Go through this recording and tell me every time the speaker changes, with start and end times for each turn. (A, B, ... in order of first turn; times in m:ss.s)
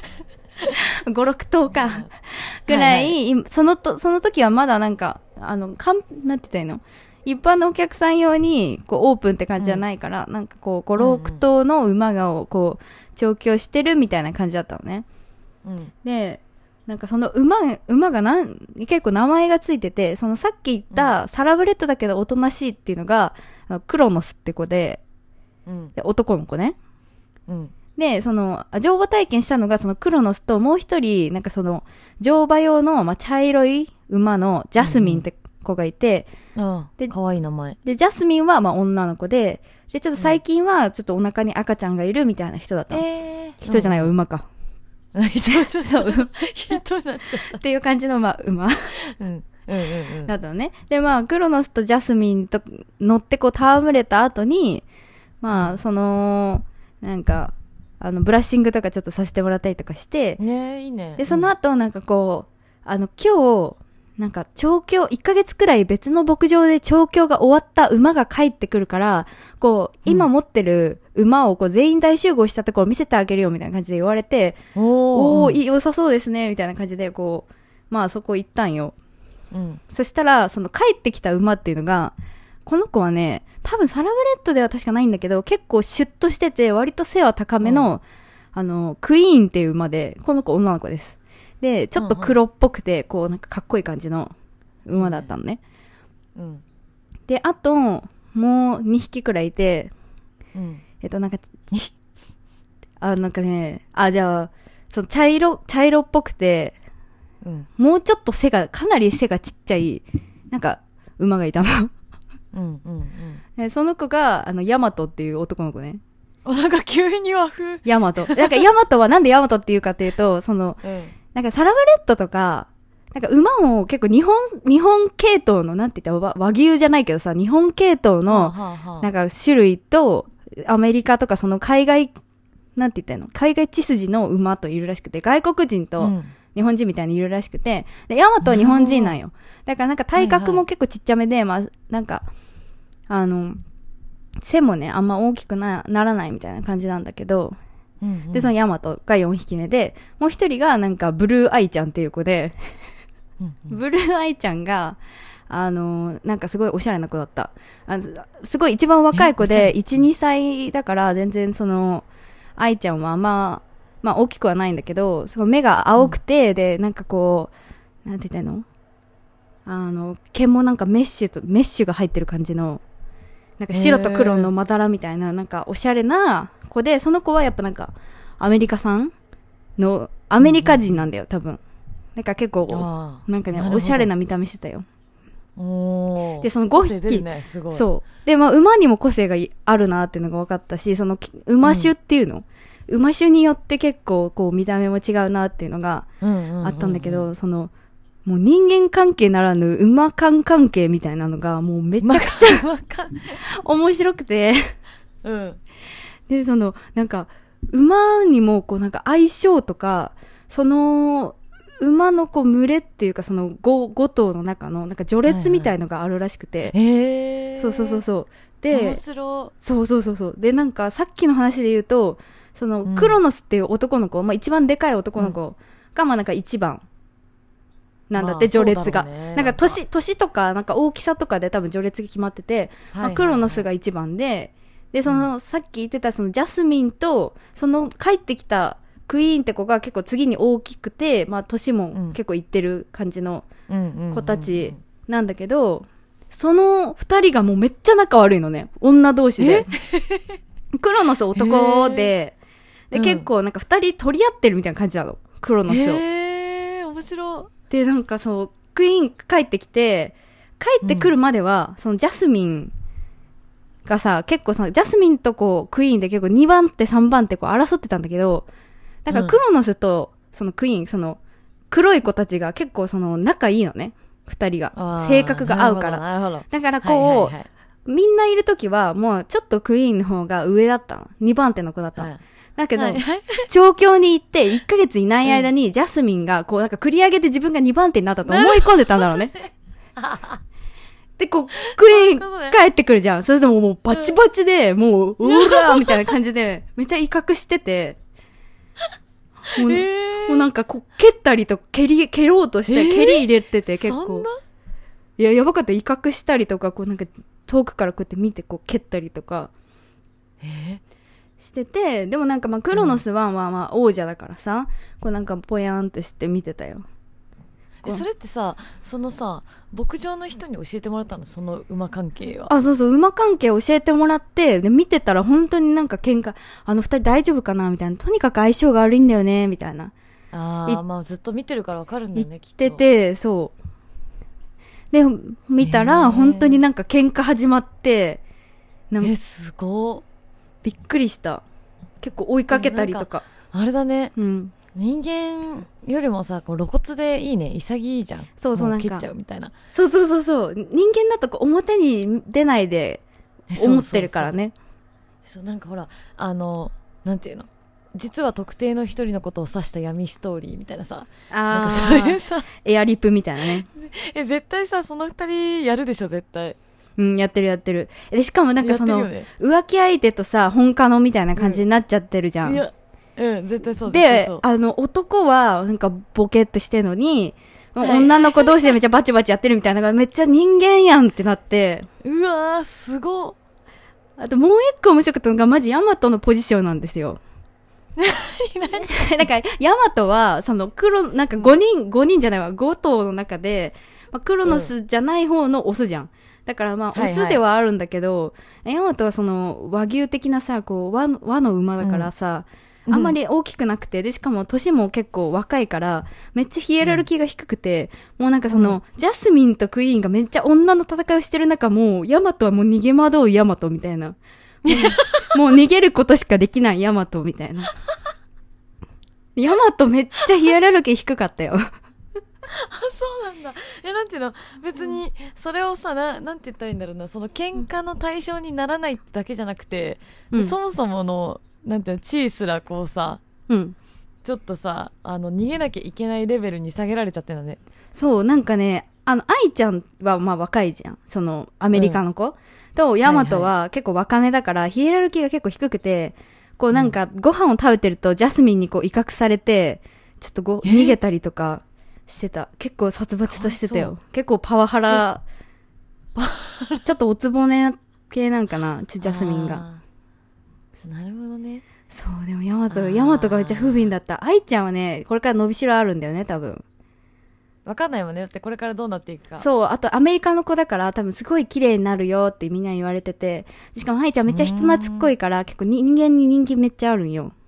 0:00.6-0:15.0 A
0:01.7-0:02.1 B
0:02.7-0:03.2 B
0:09.6-0:09.8 B
0:11.0-0:11.4 B
0:15.6-0:15.9 B
0:16.0-0:25.0 A
0:25.6-0:25.9 B
0:26.0-0:26.8 A
0:27.5-0:27.7 B
0:28.0-0:36.3 A
0:34.8-0:35.2 B
0:36.5-0:37.8 B
0:37.8-0:43.0 A
0:42.9-0:44.1 B
0:43.6-0:44.4 A
0:45.1-0:47.6 B
0:45.4-0:46.4 A
0:47.5-0:48.9 A
0:48.9-0:50.3 B
0:50.2-0:54.8 A
0:55.4-1:00.4 A
0:55.5-0:55.8 B
1:00.4-1:01.5 B
1:01.2-1:14.6 A
1:14.7-1:15.6 B
1:15.1-1:18.9 A
1:19.5-1:19.8 B
1:19.9-1:22.1 A
1:22.6-1:28.0 A
1:27.6-1:27.9 B
1:28.5-1:34.3 A
1:32.0-1:32.4 B
1:34.8-1:35.6 A
1:34.9-1:35.3 B
1:36.4-1:36.6 B
1:37.3-1:39.9 A
1:40.5-1:40.8 B
1:41.0-1:41.7 A
1:43.0-1:46.7 A
1:47.4-1:47.7 B
1:47.8-1:51.9 A
1:52.5-1:53.4 B
1:53.6-1:56.0 A
1:56.4-1:58.6 B
1:57.8-2:00.8 A
2:00.8-2:01.2 B
2:01.3-2:12.1 A
2:08.3-2:09.1 B
2:12.8-2:22.2 A
2:16.0-2:16.3 B
2:18.4-2:19.2 B
2:20.2-2:20.6 B
2:23.1-2:23.6 A
2:24.4-2:27.5 A
2:28.0-2:28.5 B
2:28.3-2:32.8 A
2:33.4-2:33.8 B
2:33.7-2:42.0 A
2:39.1-2:39.7 B
2:42.6-2:47.5 A
2:48.0-2:48.6 A
2:49.6-2:52.8 A
2:53.6-2:59.1 A
2:53.7-2:54.5 B
2:59.8-3:01.6 A
3:00.4-3:01.0 B
3:02.2-3:04.8 A
3:02.7-3:04.1 B
3:05.6-3:07.9 B
3:06.4-3:16.1 A
3:11.6-3:11.9 B
3:16.2-3:17.3 B
3:16.6-3:17.7 A
3:18.2-3:22.6 A
3:22.0-3:23.4 B
3:23.4-3:24.7 A
3:25.2-3:25.6 B
3:26.3-3:36.7 A
3:35.2-3:35.7 B
3:36.7-3:38.0 B
3:37.6-3:39.0 A
3:38.7-3:39.5 B
3:39.6-3:46.8 A
3:42.8-3:43.2 B
3:48.1-4:03.5 A
3:48.2-3:49.8 B
3:52.9-3:53.7 B
4:03.7-4:04.8 B
4:04.1-4:09.7 A
4:09.4-4:10.4 B
4:10.7-4:12.4 A
4:11.4-4:12.1 B
4:12.9-4:16.0 A
4:12.9-4:13.3 B
4:15.7-4:17.5 B
4:17.7-4:22.7 A
4:20.8-4:21.1 B
4:23.8-4:28.5 A
4:29.0-4:31.2 A
4:29.1-4:29.4 B
4:31.7-4:37.3 A
4:34.7-4:37.5 B
4:37.9-4:49.3 A
4:42.0-4:42.2 B
4:42.8-4:43.5 B
4:45.2-4:45.5 B
4:48.2-4:50.4 B
4:51.2-4:58.0 A
4:51.6-4:52.6 B
4:53.9-4:54.2 B
4:55.2-4:56.1 B
4:59.5-5:00.5 B
4:59.6-5:04.3 A
5:02.7-5:04.4 B
5:05.2-5:09.5 A
5:10.4-5:10.8 B
5:11.4-5:16.8 A
5:12.7-5:13.0 B
5:17.8-5:22.5 B
5:22.5-5:29.9 A
5:30.3-5:32.8 B
5:32.1-5:33.5 A
5:34.9-5:38.2 A
5:35.6-5:36.6 B
5:39.0-5:40.0 B
5:40.6-5:41.4 A
5:42.0-5:43.2 A
5:42.5-5:44.1 B
5:44.2-5:44.5 A
5:44.7-5:49.5 B
5:48.4-5:49.1 A
5:49.7-5:53.0 A
5:53.5-5:54.3 B
5:53.5-5:54.5 A
5:55.2-6:02.5 B
6:01.3-6:03.7 A
6:03.5-6:06.6 B
6:07.0-6:12.6 A
6:08.6-6:09.3 B
6:11.4-6:11.6 B
6:12.4-6:14.4 B
6:13.9-6:21.9 A
6:17.8-6:18.8 B
6:22.0-6:23.4 B
6:24.2-6:27.2 A
6:28.0-6:29.2 B
6:28.7-6:57.7 A
6:34.4-6:34.7 B
6:36.9-6:37.4 B
6:41.8-6:42.1 B
6:42.9-6:43.2 B
6:48.5-6:48.8 B
6:54.6-6:55.4 B
6:59.4-7:01.6 A
7:02.5-7:13.2 B
7:13.5-7:13.7 A
7:14.2-7:17.6 B
7:17.9-7:35.2 A
7:21.7-7:22.0 B
7:23.0-7:23.5 B
7:30.6-7:31.0 B
7:33.3-7:33.9 B
7:36.1-7:36.9 B
7:36.8-7:39.6 A
7:39.0-7:39.8 B
7:40.8-7:41.6 B
7:41.9-7:46.6 A
7:42.7-7:43.9 B
7:47.6-7:49.4 B
7:49.4-7:57.3 A
7:54.3-7:55.1 B